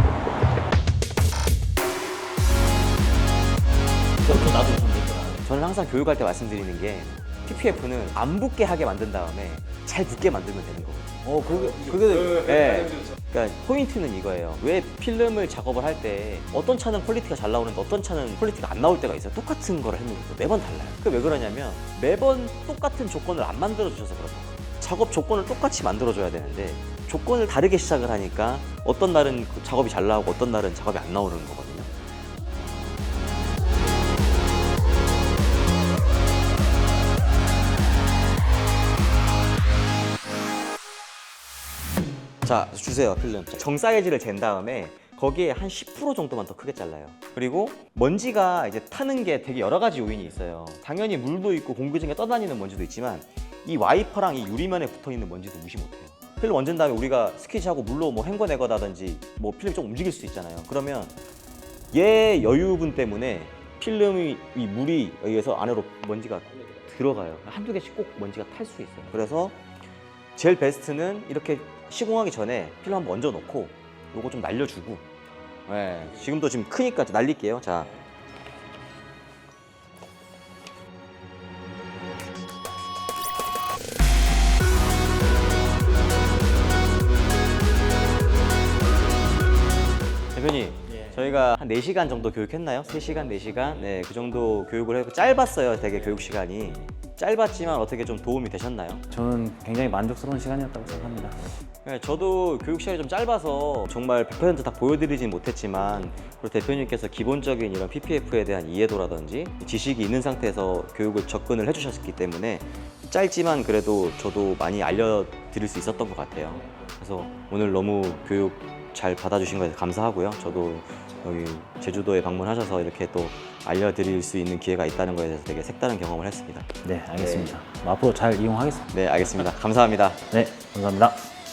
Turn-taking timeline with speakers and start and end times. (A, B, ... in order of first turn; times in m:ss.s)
0:04.4-0:05.2 A
0:05.2-0:31.9 B
0:11.4-0:12.1 A
0:42.4-1:01.2 B
1:01.9-1:09.6 B
1:10.4-1:15.0 B
1:15.7-1:17.9 B
1:30.3-1:39.0 B
1:39.1-1:41.5 A
1:41.8-2:07.6 B
2:06.8-2:08.9 A
2:08.9-2:10.2 B
2:10.3-2:11.2 A